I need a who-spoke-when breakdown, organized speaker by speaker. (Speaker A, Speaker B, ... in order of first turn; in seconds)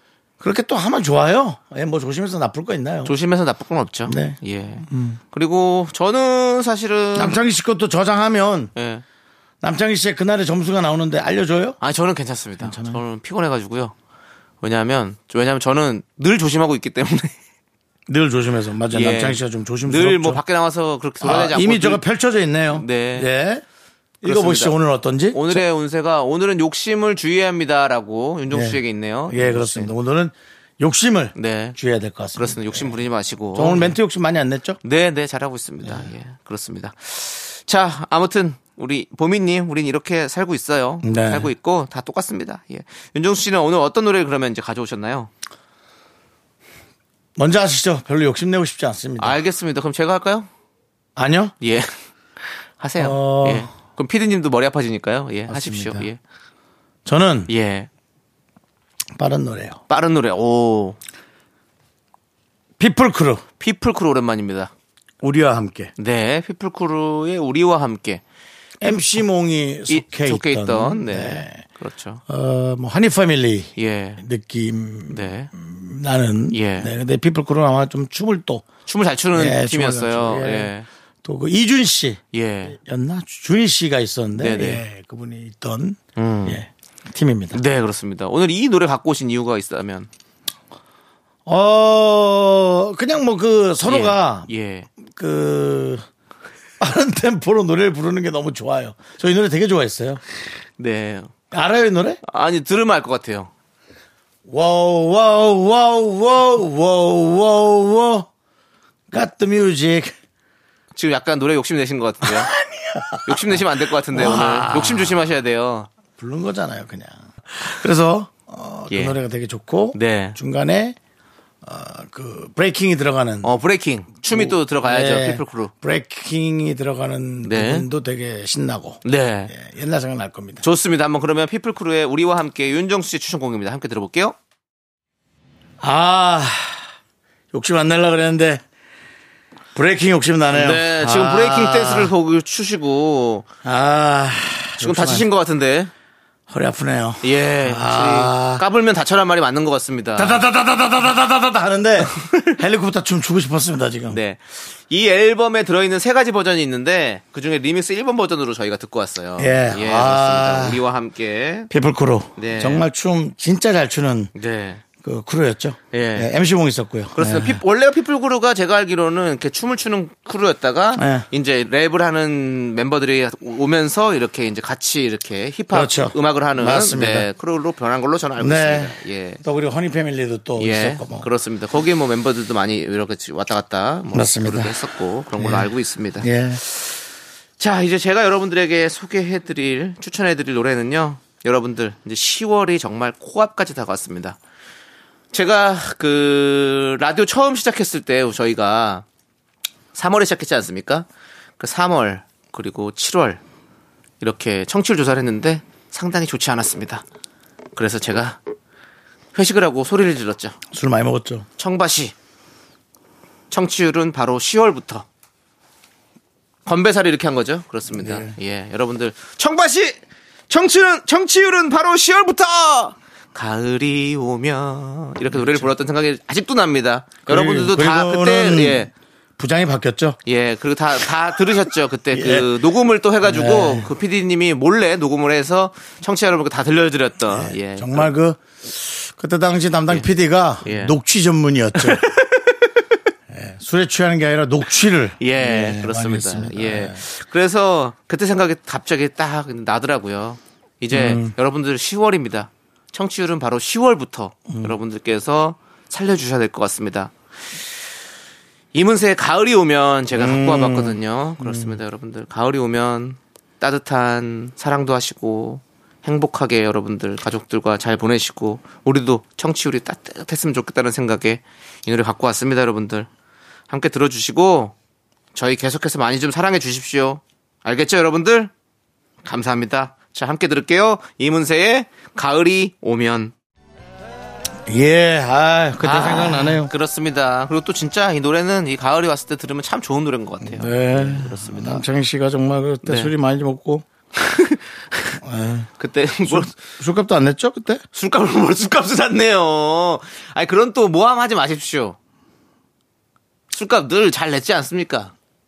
Speaker A: 0.4-3.1, 4.1-5.2, 7.1-8.7, 9.6-11.8, 12.6-13.0, 18.1-20.4, 21.2-23.6, 24.2-25.6, 28.5-33.0, 33.5-34.8, 35.8-36.1, 41.0-41.5, 47.4-49.4, 51.1-51.5, 53.0-53.7, 55.5-56.1, 57.0-57.5, 59.1-59.8, 62.8-63.4, 65.2-65.9, 68.8-71.6, 72.3-78.7, 79.3-80.7, 81.2-87.6, 91.5-94.5, 95.0-96.0, 96.8-100.2, 101.5-102.2, 104.5-108.3, 109.1-110.1, 112.2-115.2, 116.2-121.0, 121.6-123.5, 124.3-130.6, 135.8-136.8, 137.5-138.6, 139.7-142.1, 143.6-145.3, 146.5-148.6, 150.2-154.2, 159.4-160.8, 161.7-164.3, 165.0-167.6, 170.9-171.3, 175.7-177.3, 178.4-181.3, 184.1-184.8, 185.3-186.6, 210.7-211.4, 217.9-218.3, 225.3-225.7, 227.3-230.2, 232.1-232.5, 233.2-233.9, 237.3-242.1, 243.3-247.0, 250.9-251.3, 254.5-254.7, 260.1-261.8, 284.7-286.7, 290.4-293.9, 295.1-295.7, 296.2-297.8
Speaker B: 3.0-7.4, 8.8-9.0, 11.8-13.9, 14.6-17.3, 18.9-22.0, 22.7-23.3, 24.2-24.8, 25.3-29.9, 31.3-31.8, 32.3-33.9, 34.8-45.3, 49.2-50.5, 51.6-51.9, 52.8-56.2, 57.5-57.9, 59.9-61.0, 63.6-64.7, 66.0-68.2, 69.9-72.2, 73.8-74.2, 75.1-75.5, 76.5-76.9, 78.9-80.9, 82.3-82.8, 84.4-84.8, 86.2-86.6, 87.5-90.1, 93.8-94.9, 100.8-101.3, 102.2-103.5, 110.9-112.5, 113.2-115.9, 118.9-119.2, 119.9-120.4, 123.4-125.7, 127.4-127.8, 129.0-129.5, 130.6-134.3, 140.5-143.5, 144.8-145.9, 147.2-150.4, 154.1-161.7, 162.4-162.8, 164.3-164.8, 165.9-166.3, 167.1-179.4, 180.6-187.0, 187.6-194.4, 195.3-199.0, 199.9-201.1, 201.6-203.4, 204.2-207.0, 207.8-208.4, 209.3-210.6, 211.6-212.1, 213.5-215.1, 216.7-228.9, 230.2-238.1, 240.6-240.9, 241.8-242.7, 245.2-257.1, 258.7-273.1, 273.7-274.7, 275.3-278.5, 279.2-283.3, 285.8-291.8, 292.8-293.1, 294.2-295.2, 295.8-296.5, 297.9-302.0, 303.5-305.1